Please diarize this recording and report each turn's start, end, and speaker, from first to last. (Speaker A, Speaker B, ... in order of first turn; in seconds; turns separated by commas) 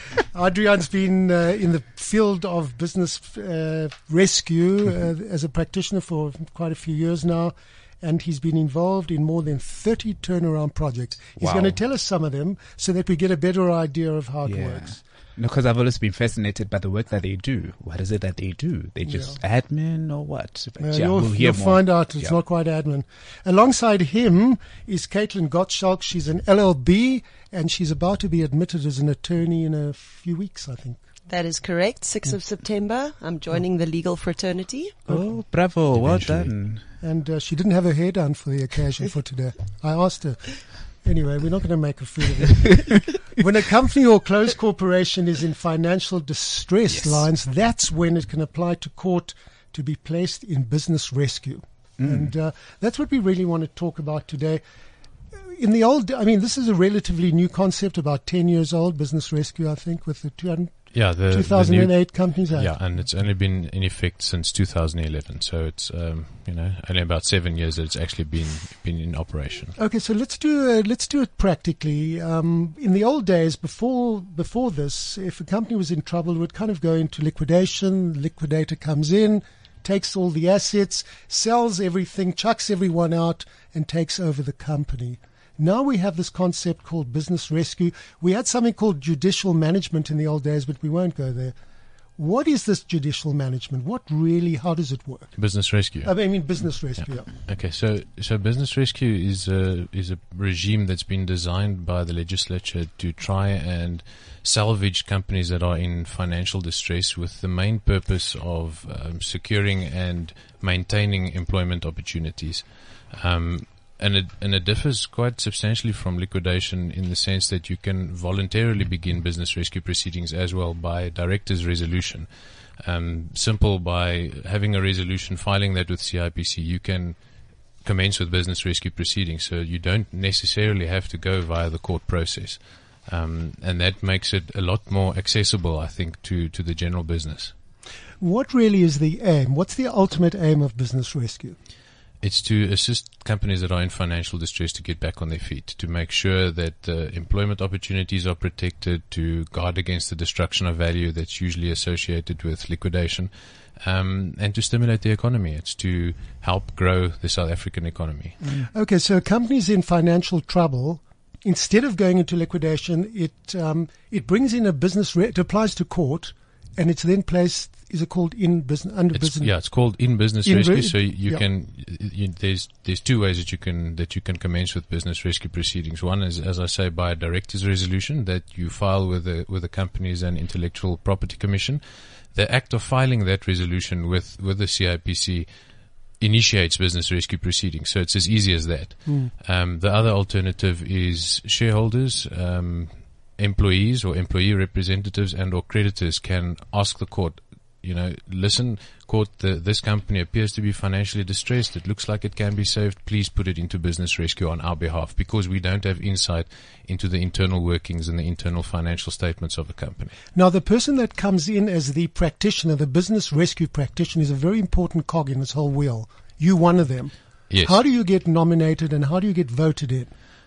Speaker A: 0.3-15.0, Speaker B: 11.4-11.8, Speaker B: 14.4-22.4, Speaker A: 19.1-19.4, Speaker A: 20.8-31.0, Speaker C: 31.3-35.0, Speaker B: 35.1-36.8, Speaker D: 35.9-36.5, Speaker A: 37.0-54.6, Speaker B: 47.0-47.2, Speaker B: 52.0-52.3, Speaker A: 55.5-62.7, Speaker D: 60.9-69.8, Speaker A: 69.8-91.5, Speaker A: 92.2-97.3, Speaker D: 95.3-122.3, Speaker D: 122.8-127.2, Speaker D: 127.8-137.5, Speaker A: 138.2-141.6, Speaker D: 142.2-158.4, Speaker A: 158.4-169.5, Speaker D: 169.1-181.8, Speaker A: 170.4-171.4, Speaker D: 182.3-185.5, Speaker D: 186.2-210.2, Speaker A: 189.1-189.3, Speaker A: 210.3-220.1, Speaker D: 217.5-217.8